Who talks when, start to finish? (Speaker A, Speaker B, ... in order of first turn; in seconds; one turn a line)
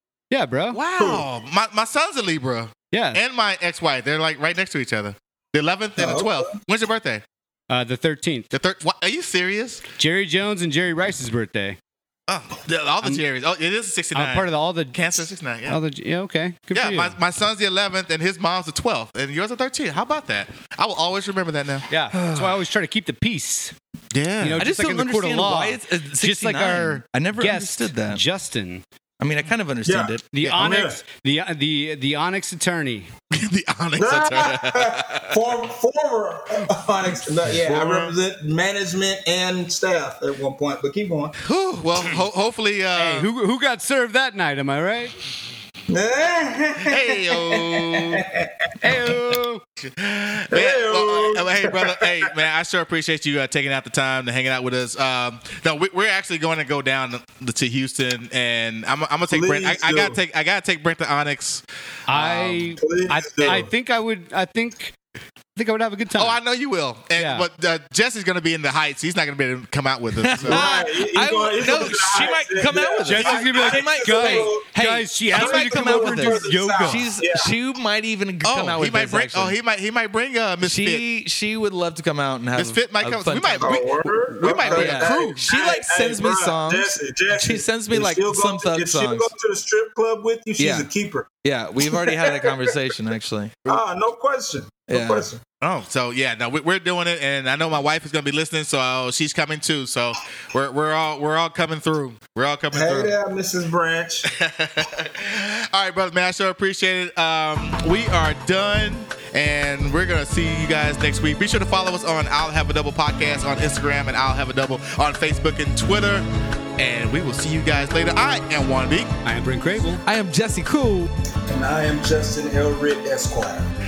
Speaker A: 0.3-0.8
Speaker B: 0.7-7.2
Speaker C: 1.0-1.3
Speaker A: 2.9-3.2
Speaker C: 6.0-6.5
Speaker A: 7.7-8.5
Speaker B: 8.5-9.8
Speaker A: 10.0-11.8
Speaker B: 12.3-15.8
Speaker A: 14.2-15.0
Speaker A: 15.7-17.2
Speaker B: 16.7-21.9
Speaker A: 21.9-23.7
Speaker D: 22.1-22.5
Speaker B: 24.1-24.7
Speaker A: 24.4-28.8
Speaker D: 24.6-28.2
Speaker D: 29.2-30.5
Speaker C: 29.9-31.0
Speaker A: 30.3-33.1
Speaker B: 33.3-35.4
Speaker C: 34.0-41.3
Speaker B: 37.5-38.1
Speaker B: 41.4-43.3
Speaker A: 43.0-45.1
Speaker C: 45.9-48.8
Speaker B: 46.8-48.3
Speaker A: 48.8-49.6
Speaker B: 49.8-61.6
Speaker C: 50.5-52.3
Speaker C: 59.3-60.2
Speaker A: 62.1-65.0
Speaker C: 62.5-63.7
Speaker A: 65.6-66.4
Speaker B: 66.2-70.7
Speaker A: 67.2-67.5
Speaker D: 70.2-79.5
Speaker C: 70.4-74.7
Speaker A: 73.1-77.1
Speaker C: 75.3-77.5
Speaker B: 78.4-81.0
Speaker D: 80.6-83.9
Speaker B: 82.6-85.5
Speaker C: 83.6-91.3
Speaker D: 84.5-89.3
Speaker D: 90.6-90.9
Speaker D: 91.4-93.6
Speaker C: 91.8-92.7
Speaker C: 93.7-95.4
Speaker D: 94.9-95.3
Speaker B: 95.6-103.2
Speaker C: 102.7-104.3
Speaker B: 104.3-116.2
Speaker B: 116.8-119.1
Speaker A: 119.2-120.0
Speaker D: 120.0-121.1
Speaker C: 121.5-123.7